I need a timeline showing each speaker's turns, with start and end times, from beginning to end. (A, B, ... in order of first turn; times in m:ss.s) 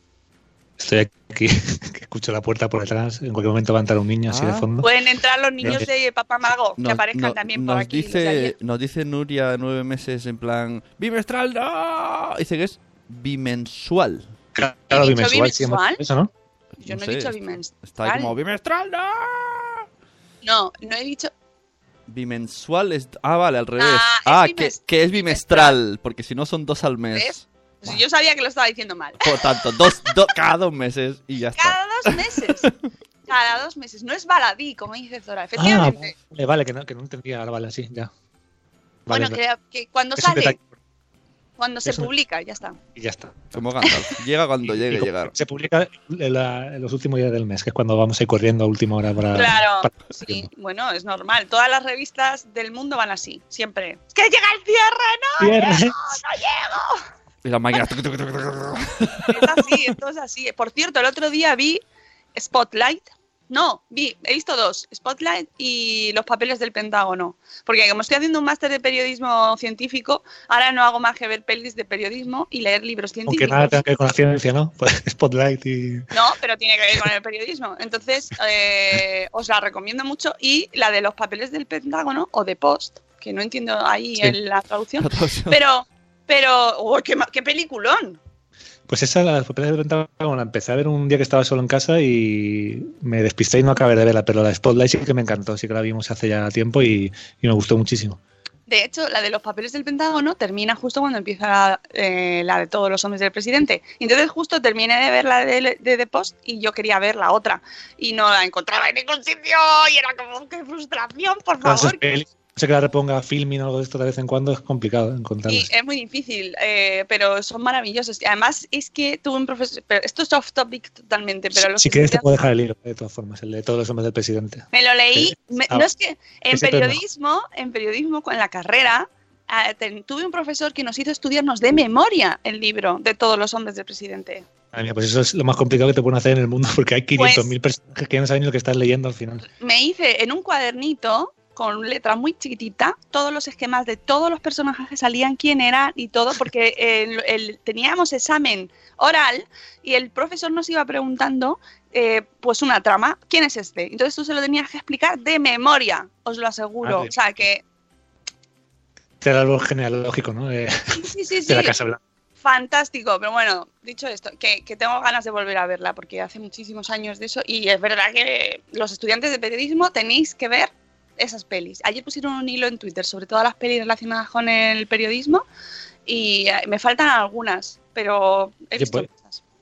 0:00.8-0:04.9 A
0:04.3-0:04.7 B
0:04.8-0:08.5 C
0:06.8-0:14.3 B
0:14.5-0:16.3 A
0:14.9-0:16.0 C
0:16.8-0:19.8 B
0:16.8-0:18.3 C
0:20.4-0:21.3 C
0:22.1-0:27.5 B
0:23.8-0:25.8 C
0:27.1-0:29.2 C
0:29.2-0:32.5 B
0:31.6-0:32.7 C
0:33.3-0:36.1 C
0:35.6-0:38.1 A
0:39.0-0:39.4 A
0:39.1-0:40.6 C
0:40.2-0:40.7 A
0:41.6-0:42.8 C
0:41.8-0:42.1 A
0:42.9-0:43.5 A
0:43.5-0:45.3 B
0:44.6-0:50.5 A
0:49.3-0:57.0 C
0:55.4-0:56.0 A
0:57.4-0:59.6 B
0:59.3-1:01.8 C
1:02.3-1:13.8 C
1:13.3-1:16.1 A
1:16.1-1:28.2 C
1:25.0-1:25.6 B
1:28.9-1:38.2 A
1:38.7-1:52.0 C
1:51.6-1:55.7 A
1:55.5-2:02.3 C
2:01.5-2:05.9 A
2:04.7-2:14.4 C
2:06.5-2:07.0 A
2:14.7-2:19.4 A
2:17.1-2:17.5 C
2:19.6-2:37.6 C
2:36.8-2:37.1 A
2:39.2-2:40.8 A
2:40.9-2:41.8 C
2:41.5-2:42.0 A
2:42.4-2:55.4 C
2:56.0-2:59.4 C
2:58.8-2:59.1 A